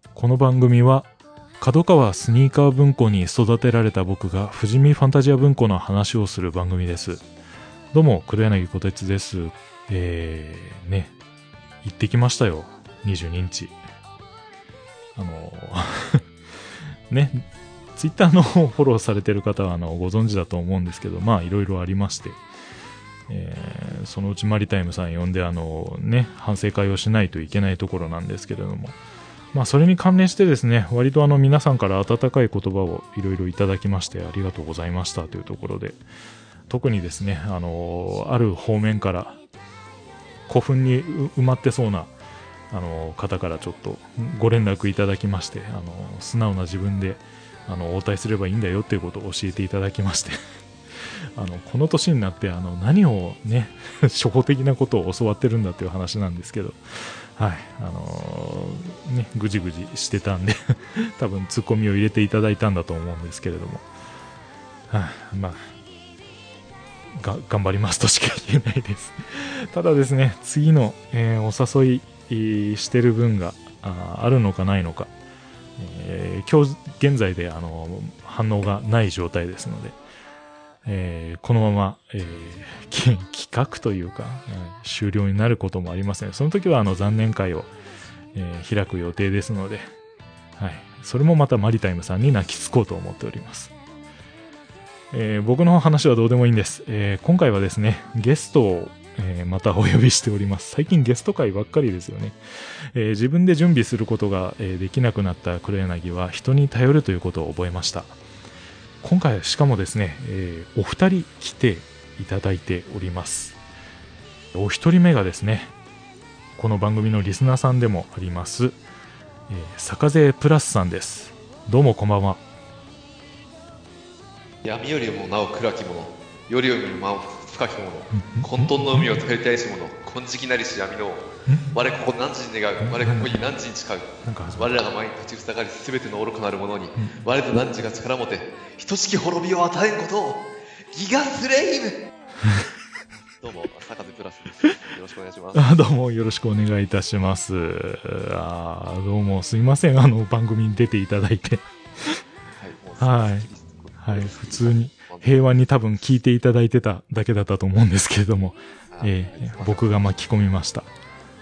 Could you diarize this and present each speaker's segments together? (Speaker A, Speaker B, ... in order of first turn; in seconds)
Speaker A: 0.1-7.2, 7.9-11.1, 11.8-13.8, 15.2-16.2, 17.1-17.4, 18.0-22.4, 23.3-29.0, 29.5-36.0, 36.7-39.4, 40.5-42.1, 42.7-50.4, 51.4-63.9, 64.9-65.6, 67.2-75.1, 75.8-80.0, 80.8-87.7, 88.3-89.9, 90.6-93.7, 95.1-102.4, 102.9-108.2, 109.0-113.6, 114.5-115.7, 116.6-118.8, 119.5-122.4, 128.1-129.1, 131.5-131.7, 132.8-133.3, 134.2-134.8, 145.5-152.2, 153.0-153.5, 154.0-160.9
Speaker B: 124.6-142.1, 143.4-145.7, 152.6-155.4, 158.9-159.9